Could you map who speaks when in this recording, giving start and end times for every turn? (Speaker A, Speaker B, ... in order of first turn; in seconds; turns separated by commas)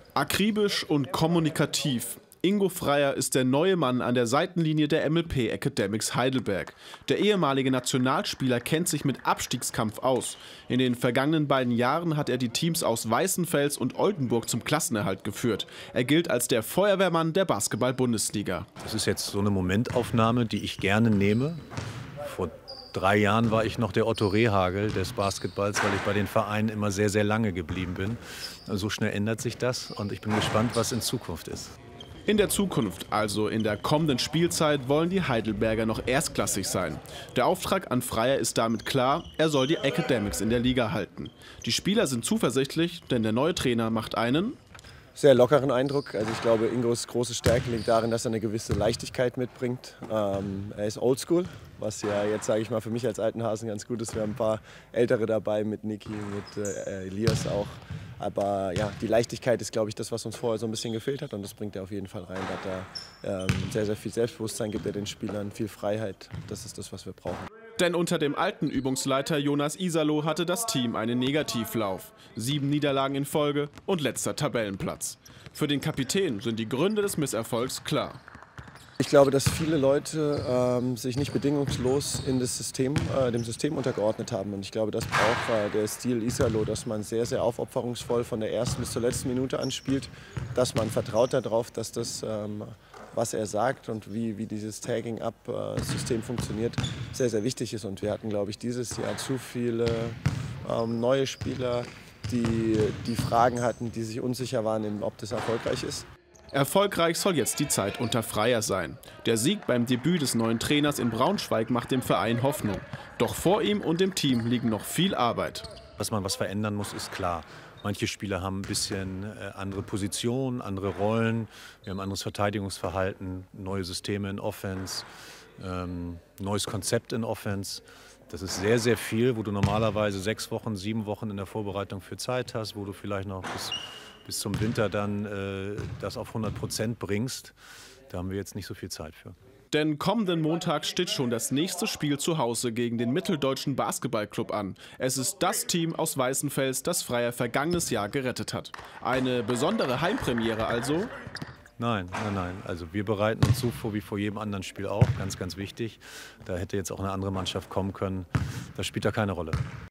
Speaker A: 0.1-18.7, Speaker B: 18.8-21.6, Speaker B: 22.2-31.8, Speaker A: 32.3-44.6, Speaker C: 45.2-67.5, Speaker A: 67.8-78.2, Speaker C: 79.0-106.1, Speaker A: 106.5-115.7, Speaker B: 116.0-125.1, Speaker B: 125.6-137.5, Speaker B: 138.1-139.3, Speaker A: 139.7-151.1, Speaker B: 151.8-159.6